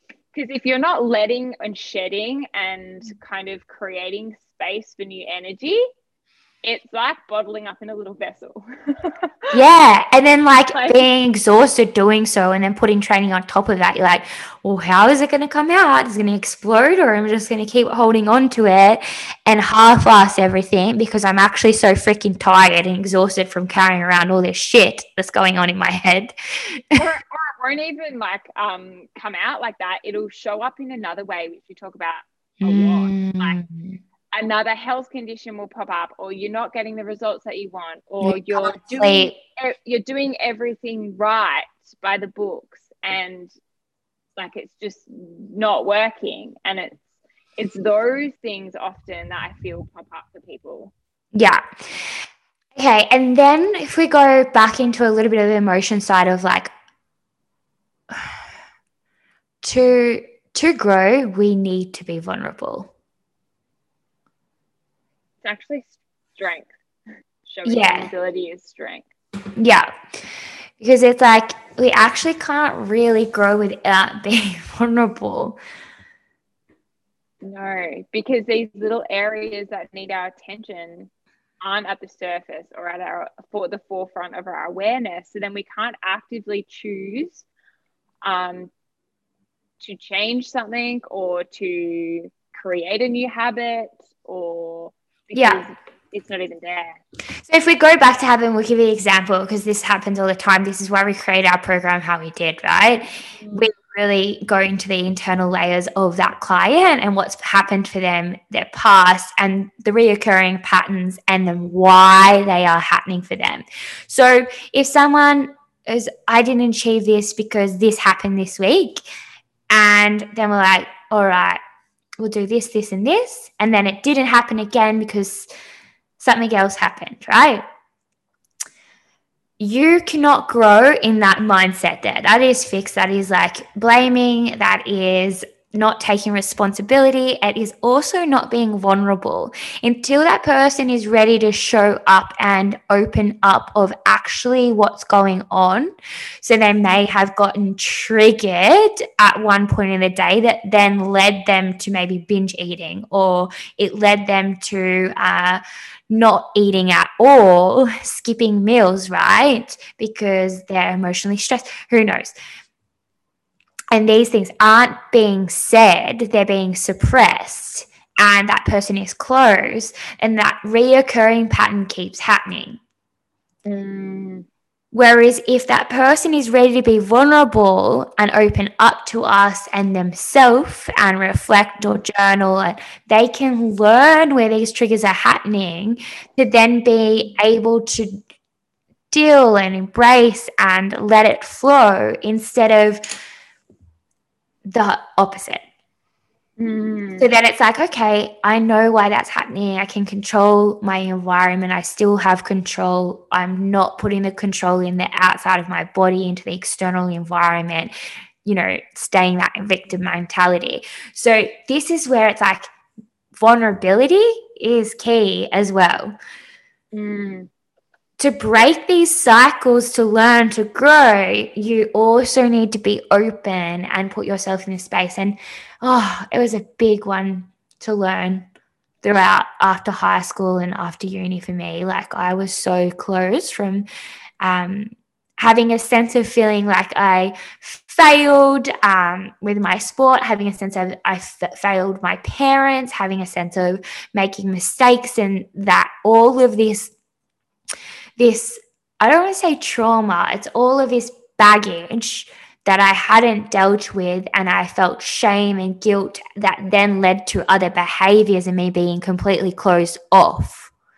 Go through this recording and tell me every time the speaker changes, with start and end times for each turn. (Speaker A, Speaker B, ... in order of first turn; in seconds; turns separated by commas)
Speaker A: 0.3-5.8, Speaker A: 6.6-9.5, Speaker B: 9.5-27.0, Speaker A: 10.7-11.0, Speaker A: 26.9-33.6, Speaker B: 32.6-34.0, Speaker A: 34.3-43.5, Speaker B: 38.2-39.4, Speaker A: 44.4-50.9, Speaker B: 51.3-52.2, Speaker B: 52.8-56.7, Speaker B: 58.1-58.4, Speaker B: 59.6-62.9, Speaker A: 65.4-66.7, Speaker A: 67.5-69.1, Speaker B: 67.7-68.1, Speaker B: 69.6-69.9, Speaker B: 70.8-75.6, Speaker A: 77.4-81.1, Speaker A: 81.6-87.5, Speaker A: 88.2-88.7, Speaker A: 89.8-97.0, Speaker B: 95.3-95.6, Speaker B: 97.5-119.0, Speaker A: 103.4-103.7, Speaker B: 119.7-121.6, Speaker B: 122.2-125.5, Speaker B: 126.2-127.6, Speaker B: 129.6-162.3, Speaker B: 163.9-172.8, Speaker A: 173.7-174.5, Speaker B: 174.9-188.2, Speaker B: 189.1-193.0, Speaker B: 194.7-195.6, Speaker A: 196.6-197.3, Speaker B: 197.2-207.9, Speaker B: 208.4-212.7, Speaker B: 213.4-216.2, Speaker A: 216.9-217.5, Speaker B: 218.2-228.5, Speaker B: 229.0-233.9, Speaker B: 234.4-246.9, Speaker B: 248.2-260.7